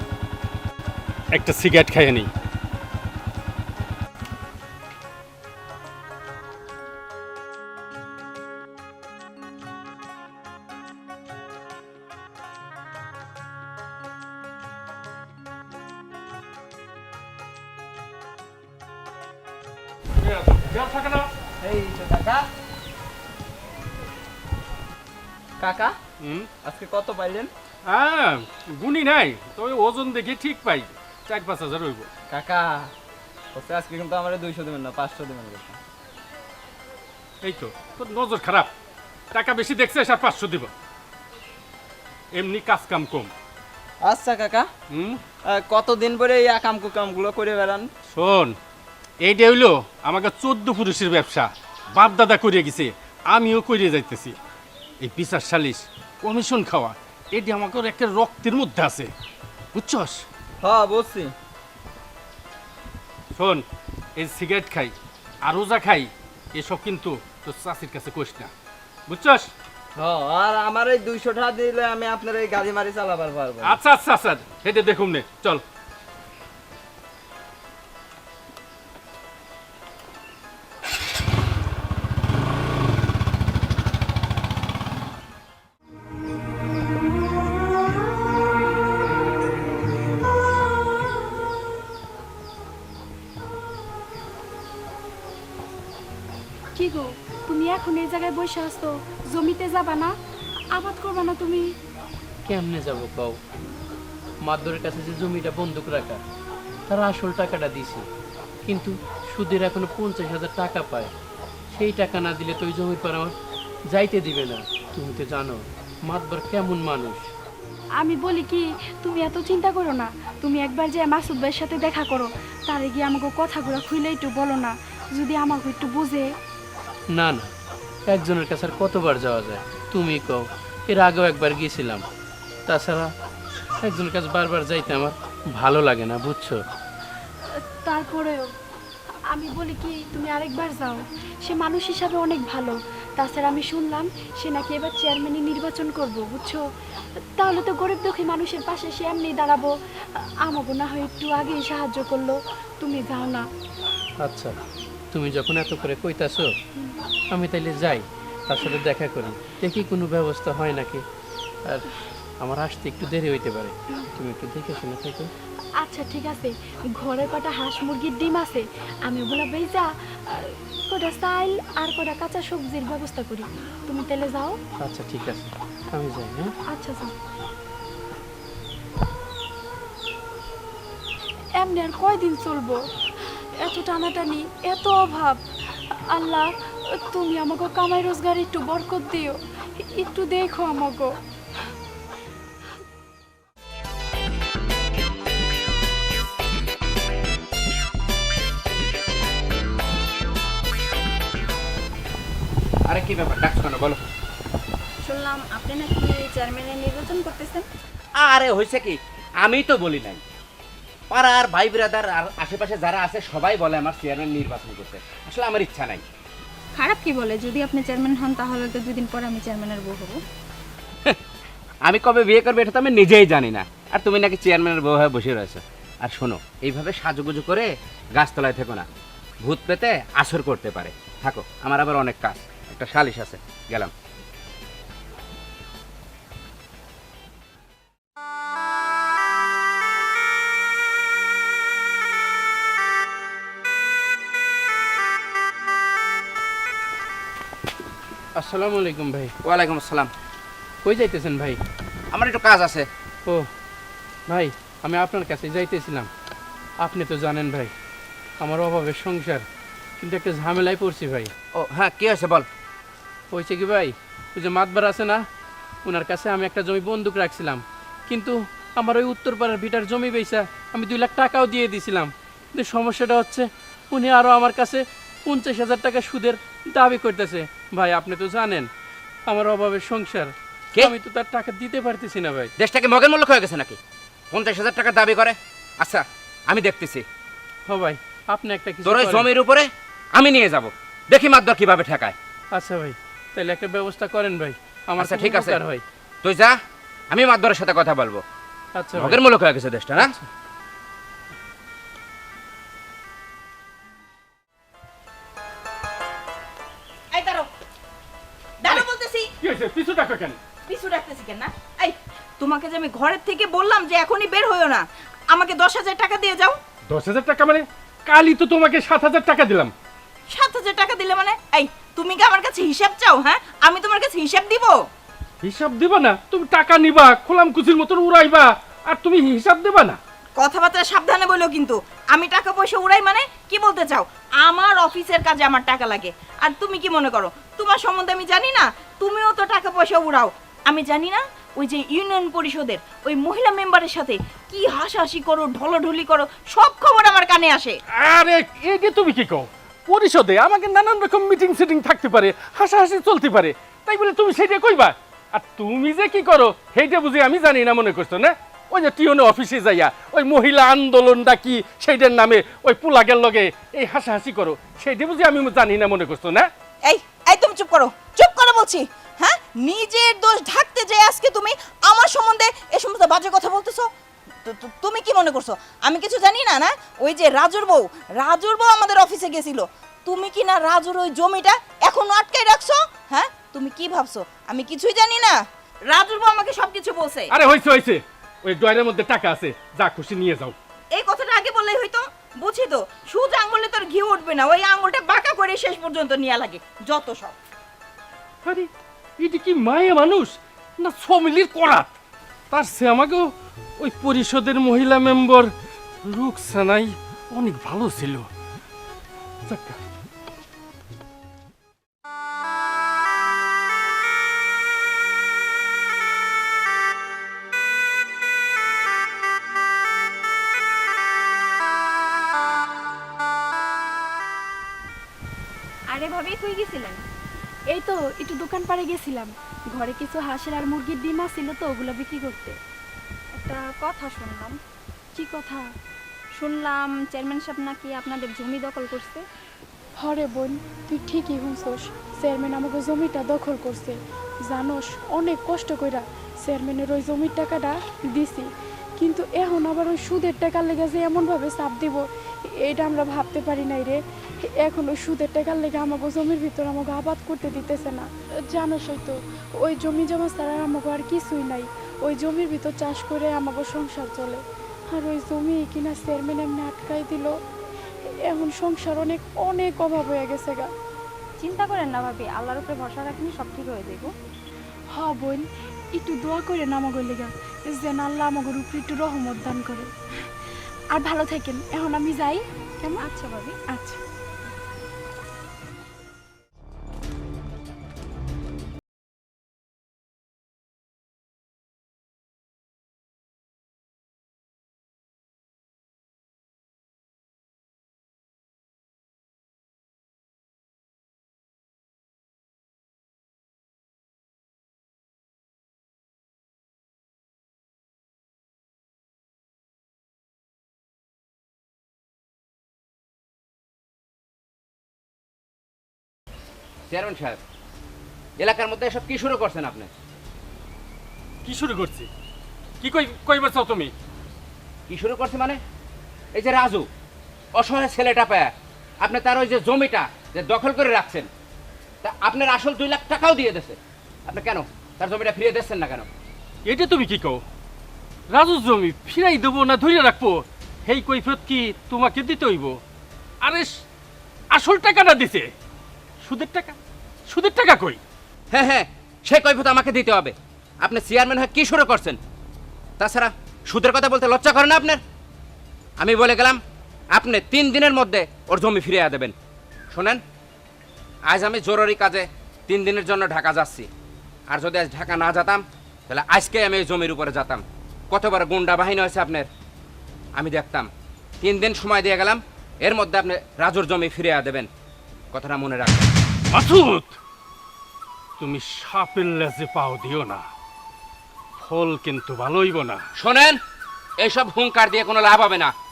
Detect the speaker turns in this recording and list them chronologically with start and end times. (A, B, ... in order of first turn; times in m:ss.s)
0:01.3-0:02.3 A
0:20.2-0:21.3 A
0:21.6-0:22.5 B
0:25.6-0:26.0 B
0:26.2-0:26.5 A
0:26.6-0:27.5 B
0:27.9-0:32.1 A
0:32.3-0:32.9 B
0:33.5-0:35.8 B
0:37.4-0:38.7 A
0:39.3-0:40.7 A
0:42.3-0:43.3 A
0:44.0-0:44.7 B
0:44.9-0:45.2 A
0:45.4-0:47.9 B
0:48.1-0:48.6 A
0:49.2-0:54.4 A
0:55.0-0:59.1 A
0:59.8-1:00.2 A
1:00.6-1:01.3 B
1:03.4-1:03.6 A
1:04.2-1:04.9 A
1:05.4-1:08.5 A
1:09.1-1:09.5 A
1:10.0-1:13.8 B
1:13.6-1:15.6 A
1:36.8-1:40.1 C
1:40.8-1:41.7 C
1:42.5-1:43.4 D
1:44.4-1:46.2 D
1:46.9-1:48.0 D
1:48.7-1:51.1 D
1:51.7-1:53.3 D
1:53.9-1:57.3 D
1:58.0-2:06.3 C
2:07.1-2:07.5 D
2:08.1-2:12.0 D
2:12.7-2:13.1 D
2:13.8-2:16.6 D
2:17.8-2:18.5 C
2:19.3-2:26.6 C
2:27.4-2:33.4 C
2:34.2-2:34.6 D
2:35.1-2:36.5 D
2:37.3-2:41.0 D
2:42.4-2:45.3 D
2:45.8-2:54.6 C
2:54.8-2:56.5 D
2:56.7-2:57.1 C
3:01.6-3:02.8 C
3:03.6-3:06.5 C
3:07.1-3:11.1 C
3:22.9-3:24.0 E
3:25.0-3:27.7 F
3:28.2-3:30.2 E
3:31.1-3:36.0 E
3:36.8-3:40.2 F
3:41.8-3:48.8 E
3:49.4-3:53.9 E
4:08.4-4:09.3 D
4:09.4-4:10.1 E
4:10.8-4:11.6 D
4:12.1-4:12.9 E
4:14.3-4:16.1 D
4:16.8-4:17.7 D
4:18.4-4:19.4 D
4:20.0-4:21.3 D
4:21.6-4:22.5 E
4:23.3-4:25.2 D
4:25.8-4:38.7 D
4:39.3-4:42.5 D
4:42.6-4:43.8 E
4:44.3-4:47.0 E
4:47.7-4:49.3 D
4:48.8-4:52.2 E
4:52.5-4:55.8 D
4:55.0-4:55.6 E
4:56.2-4:56.6 E
4:57.1-4:58.2 E
4:58.8-4:59.2 D
4:59.0-5:00.1 E
5:00.0-5:00.3 D
5:07.1-5:07.5 G
5:08.6-5:09.3 G
5:09.4-5:10.4 A
5:10.7-5:16.6 G
5:16.9-5:19.7 A
5:20.3-5:24.8 G
5:25.4-5:30.0 A
5:30.4-5:47.8 G
5:47.9-6:06.5 A
6:06.8-6:13.9 G
6:14.4-6:27.3 G
6:27.3-6:30.6 A
6:31.0-6:37.4 G
6:38.4-6:41.9 A
6:42.5-6:45.5 A
6:46.0-6:48.3 A
6:49.5-6:49.8 A
7:05.9-7:07.1 F
7:07.7-7:12.6 C
7:13.3-7:14.6 F
7:15.2-7:15.6 C
7:16.4-7:19.2 F
7:20.0-7:32.0 C
7:32.6-7:47.3 C
7:48.3-7:50.7 C
7:51.4-7:54.1 F
7:55.0-7:59.9 C
8:01.0-8:03.1 C
8:03.0-8:03.6 F
8:03.7-8:04.0 C
8:36.9-8:37.4 E
8:38.4-8:39.9 E
8:41.4-8:42.1 A
8:42.8-8:43.9 A
8:44.9-8:45.6 E
8:46.3-8:46.9 E
8:47.6-8:51.3 E
8:52.0-8:56.1 E
8:56.7-8:57.4 A
8:58.3-9:02.8 A
9:03.4-9:03.7 A
9:04.5-9:05.5 A
9:06.2-9:06.8 A
9:07.3-9:08.0 A
9:08.5-9:12.2 E
9:13.0-9:15.0 E
9:16.0-9:16.6 E
9:17.1-9:19.3 E
9:19.9-9:20.2 E
9:21.3-9:23.9 E
9:24.5-9:29.5 E
9:30.4-9:30.9 E
9:31.4-9:34.7 E
9:35.3-9:36.1 E
9:36.5-9:37.2 A
9:38.4-9:40.4 A
9:41.6-9:43.0 A
9:43.2-9:43.6 E
9:44.2-9:45.7 E